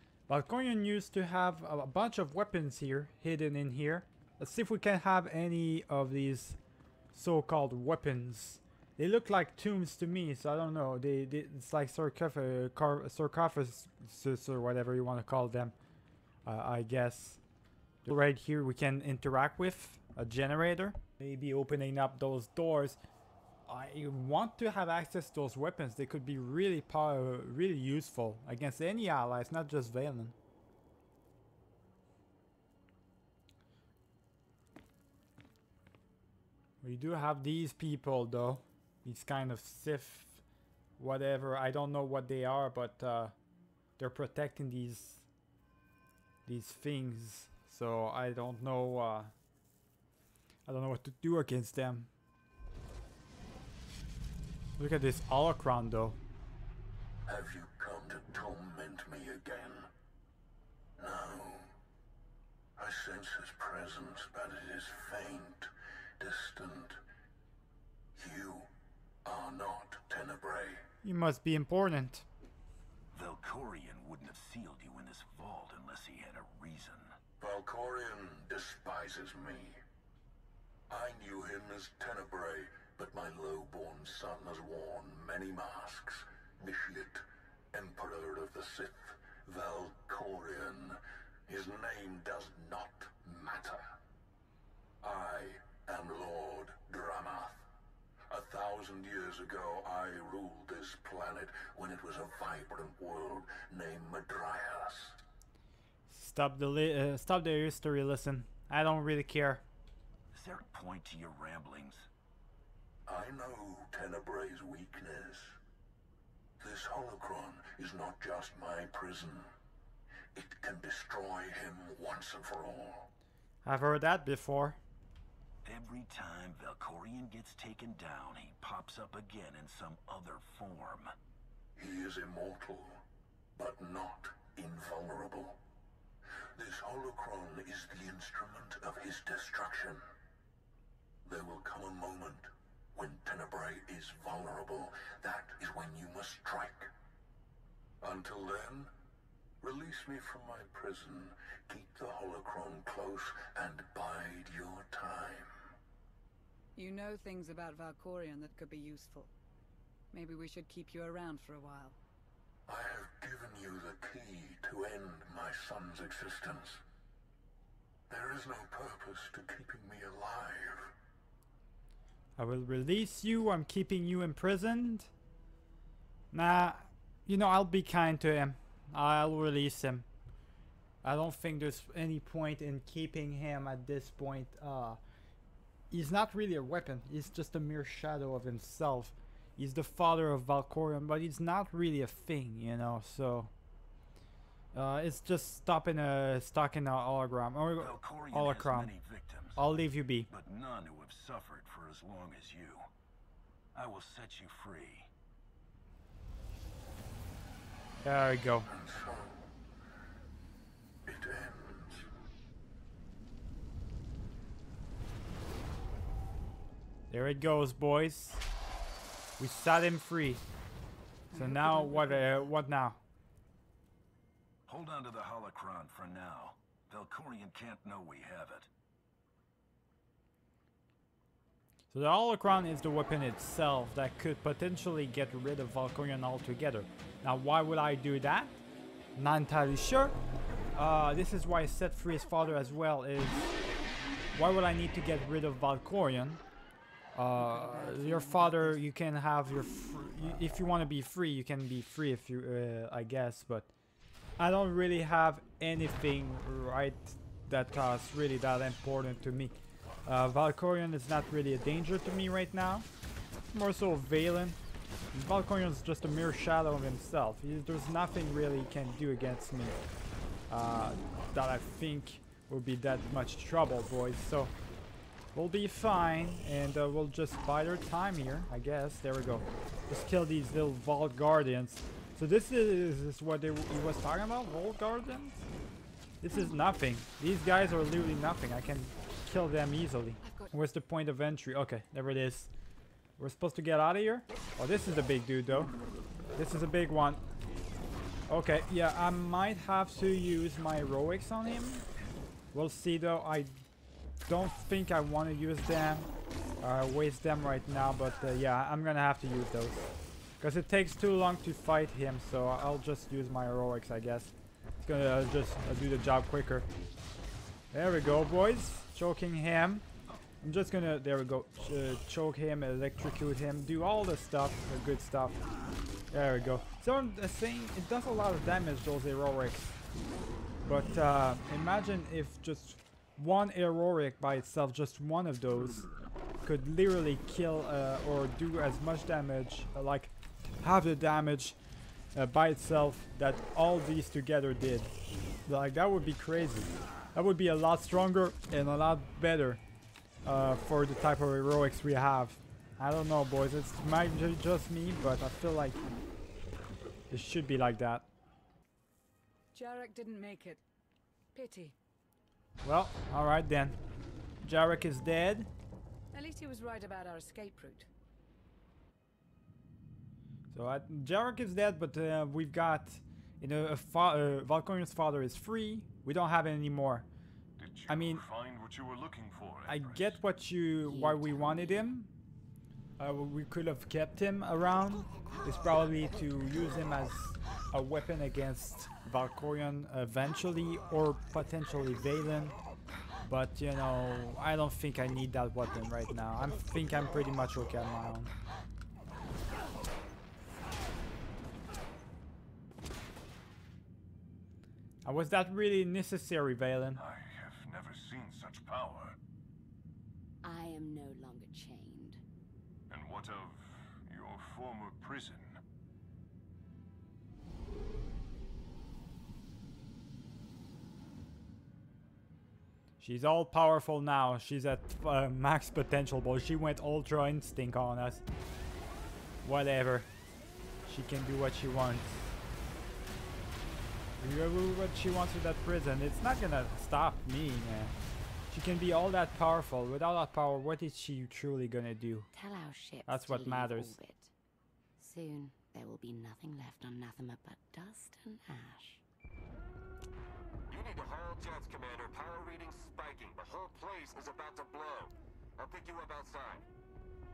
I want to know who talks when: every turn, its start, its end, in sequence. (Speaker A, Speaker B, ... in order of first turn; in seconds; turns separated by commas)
Speaker A: 0.3-6.6, Speaker A: 7.1-15.7, Speaker A: 16.5-17.4, Speaker A: 18.0-23.0, Speaker A: 23.7-30.3, Speaker A: 36.8-40.4, Speaker A: 41.0-43.3, Speaker A: 44.0-45.2, Speaker A: 46.5-49.3, Speaker A: 50.7-52.1, Speaker A: 54.8-56.2, Speaker B: 57.3-59.9, Speaker B: 61.0-61.7, Speaker B: 62.8-67.0, Speaker B: 68.2-68.7, Speaker B: 69.2-70.9, Speaker A: 71.0-72.2, Speaker C: 73.1-77.1, Speaker B: 77.4-79.8, Speaker B: 80.9-93.9, Speaker B: 95.0-97.7, Speaker B: 98.3-105.2, Speaker A: 106.1-109.6, Speaker C: 110.3-112.1, Speaker B: 113.1-115.6, Speaker B: 116.6-119.5, Speaker B: 120.3-123.1, Speaker A: 123.6-124.8, Speaker C: 125.6-131.1, Speaker B: 131.8-133.0, Speaker B: 133.6-135.6, Speaker B: 136.6-140.0, Speaker B: 141.2-146.9, Speaker B: 148.0-148.9, Speaker B: 149.6-155.5, Speaker D: 156.8-159.3, Speaker D: 160.1-162.0, Speaker B: 162.7-166.8, Speaker B: 168.1-170.9, Speaker A: 172.4-175.1, Speaker A: 176.3-180.1, Speaker A: 181.0-185.0, Speaker A: 185.9-193.5, Speaker A: 194.7-198.9, Speaker C: 197.8-199.6, Speaker A: 199.6-200.3, Speaker C: 200.3-202.8, Speaker C: 203.8-205.1, Speaker A: 208.0-208.7, Speaker B: 208.7-209.5, Speaker B: 211.1-212.1, Speaker A: 217.1-218.4, Speaker A: 219.4-220.4, Speaker A: 221.3-223.0, Speaker D: 221.3-222.1, Speaker C: 224.7-228.7, Speaker A: 231.9-238.5, Speaker A: 239.2-240.2, Speaker A: 240.8-243.5, Speaker A: 244.3-246.4, Speaker A: 247.1-253.7, Speaker D: 247.8-248.7, Speaker A: 254.4-262.9, Speaker A: 263.5-264.6, Speaker A: 265.1-269.8, Speaker A: 270.5-274.5, Speaker A: 275.3-285.4, Speaker A: 286.2-292.5, Speaker D: 290.2-290.6, Speaker A: 293.2-295.7, Speaker A: 296.4-297.2, Speaker A: 298.3-301.8, Speaker A: 302.5-303.6, Speaker A: 304.3-306.1, Speaker A: 306.6-316.7, Speaker A: 317.7-319.9, Speaker A: 320.4-325.4, Speaker A: 326.1-329.8, Speaker A: 330.6-335.9, Speaker A: 336.4-341.6, Speaker A: 342.1-344.9, Speaker A: 345.5-349.6, Speaker A: 350.2-355.8, Speaker A: 357.1-358.1, Speaker D: 359.5-360.6, Speaker D: 361.3-361.8, Speaker A: 362.6-363.8, Speaker A: 364.4-365.5, Speaker D: 366.1-367.9, Speaker A: 370.5-377.1, Speaker E: 377.6-380.2, Speaker A: 377.9-378.2, Speaker A: 379.6-382.1, Speaker F: 380.8-382.0, Speaker A: 383.0-392.6, Speaker A: 393.3-398.3, Speaker A: 405.1-407.0, Speaker E: 407.0-409.2, Speaker F: 410.4-412.2, Speaker E: 412.9-415.6, Speaker A: 423.0-428.2, Speaker A: 429.4-430.1, Speaker A: 430.9-432.3, Speaker A: 434.2-438.0, Speaker A: 438.5-442.3, Speaker F: 442.3-444.3, Speaker A: 443.1-444.0, Speaker F: 445.0-449.0, Speaker G: 450.7-456.6